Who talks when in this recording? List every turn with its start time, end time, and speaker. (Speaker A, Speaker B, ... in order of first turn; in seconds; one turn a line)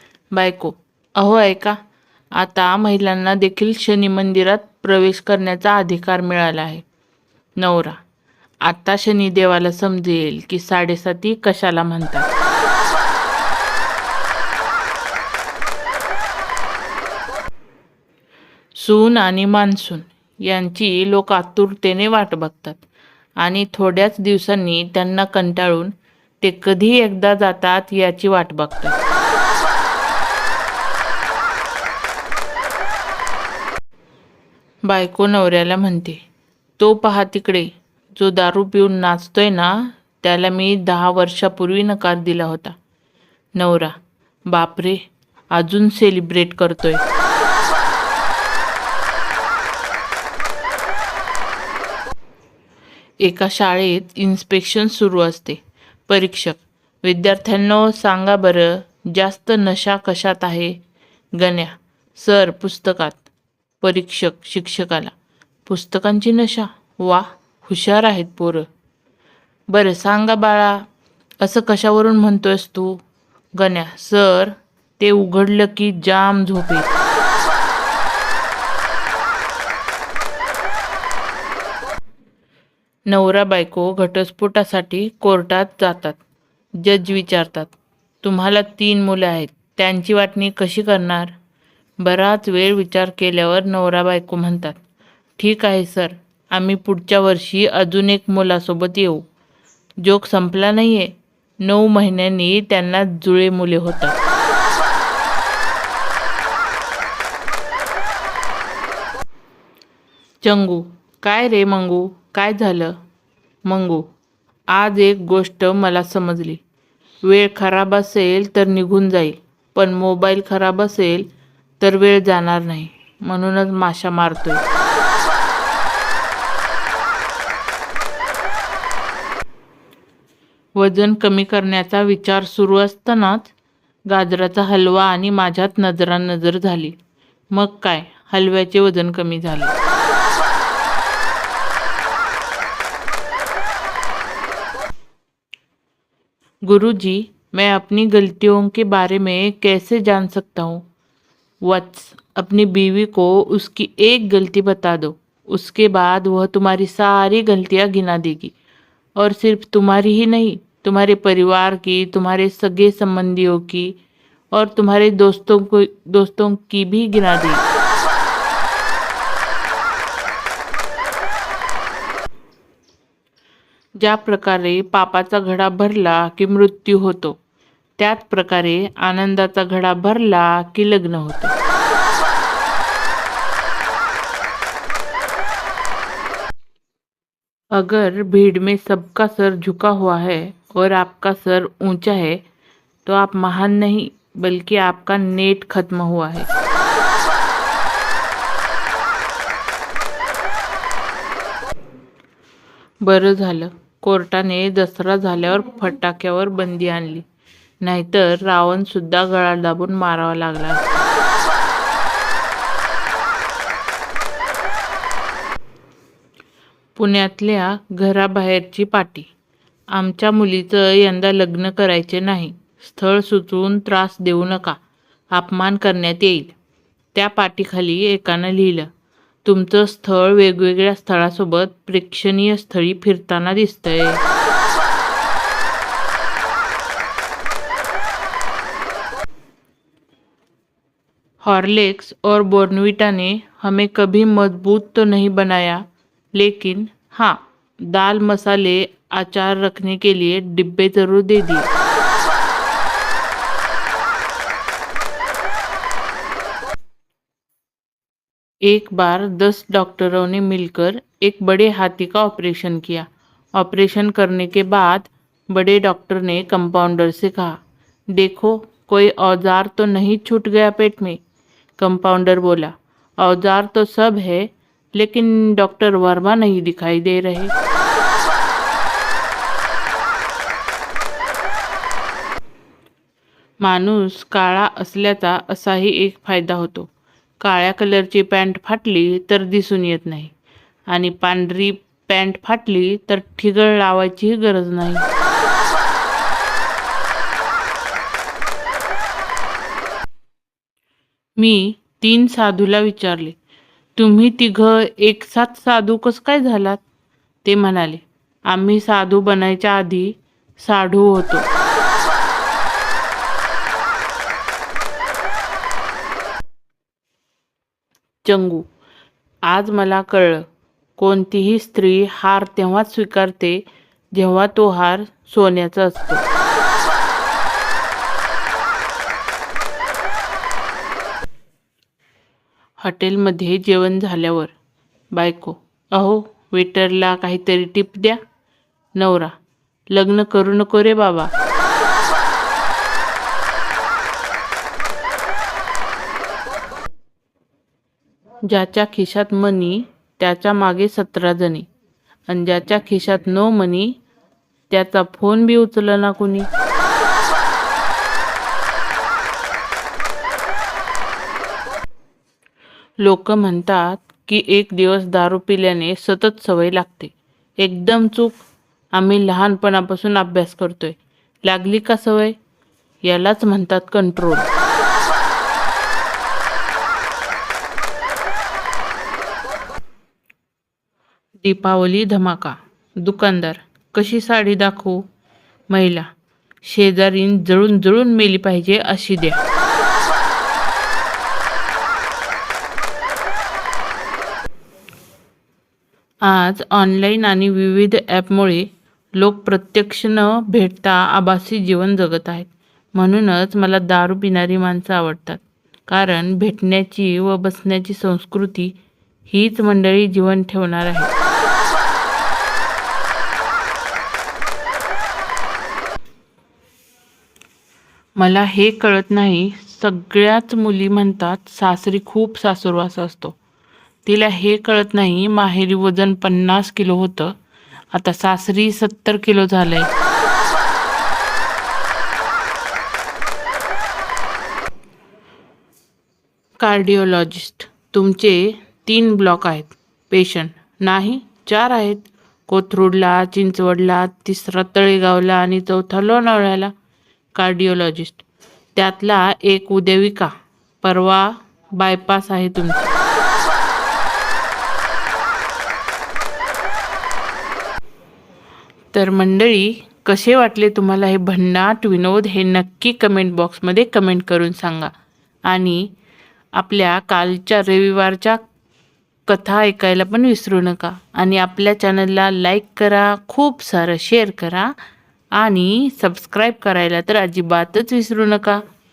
Speaker A: 0.3-1.8
Speaker A: 2.4-6.8
Speaker A: 7.6-8.0
Speaker A: 8.7-12.3
Speaker A: 18.8-22.8
Speaker A: 23.4-29.0
Speaker A: 34.9-36.2
Speaker A: 36.8-42.7
Speaker A: 43.6-43.9
Speaker A: 44.5-45.0
Speaker A: 45.5-47.0
Speaker A: 53.2-60.8
Speaker A: 61.4-63.2
Speaker A: 63.8-65.1
Speaker A: 65.7-68.7
Speaker A: 69.7-70.8
Speaker A: 71.4-73.0
Speaker A: 73.6-77.0
Speaker A: 83.1-86.2
Speaker A: 86.8-91.3
Speaker A: 92.0-94.8
Speaker A: 95.4-99.2
Speaker A: 100.0-104.2
Speaker A: 110.4-113.0
Speaker A: 113.7-114.1
Speaker A: 114.7-116.6
Speaker A: 117.2-121.3
Speaker A: 121.8-124.6
Speaker A: 130.8-133.5
Speaker A: 134.1-136.9
Speaker A: 137.5-139.8
Speaker A: 146.6-150.8
Speaker A: 151.6-158.5
Speaker A: 159.2-164.0
Speaker A: 164.5-167.6
Speaker A: 174.0-177.4
Speaker A: 178.0-181.6
Speaker A: 187.7-192.4
Speaker A: 193.1-196.5
Speaker A: 203.0-207.2
Speaker A: 207.8-211.1
Speaker A: 217.0-219.3
Speaker A: 219.9-224.8
Speaker A: 225.3-226.5
Speaker A: 227.1-228.9
Speaker A: 229.4-234.2
Speaker A: 241.4-245.8
Speaker A: 246.3-251.7
Speaker A: 258.6-267.6
Speaker A: 268.1-271.2
Speaker A: 271.8-277.5
Speaker A: 283.6-286.9
Speaker A: 287.4-290.3
Speaker A: 290.9-295.1
Speaker A: 301.4-303.4
Speaker A: 304.0-306.8
Speaker A: 307.4-311.5
Speaker A: 318.2-318.6
Speaker A: 319.5-320.5
Speaker A: 321.0-326.3
Speaker A: 332.8-334.5
Speaker A: 335.1-338.2
Speaker A: 339.0-339.3
Speaker A: 339.9-341.3
Speaker A: 348.5-351.7
Speaker A: 352.3-354.0
Speaker A: 354.7-356.5
Speaker A: 363.0-372.4
Speaker A: 373.1-374.5
Speaker A: 381.4-385.1
Speaker A: 385.7-386.1
Speaker A: 386.6-389.4
Speaker A: 396.2-408.8
Speaker A: 409.3-411.1
Speaker A: 418.2-423.4
Speaker A: 424.1-427.4
Speaker A: 427.9-429.9
Speaker A: 436.6-446.7
Speaker A: 447.4-453.0
Speaker A: 458.9-464.9
Speaker A: 465.5-465.9
Speaker A: 466.6-468.4
Speaker A: 469.3-474.7
Speaker A: 475.4-478.6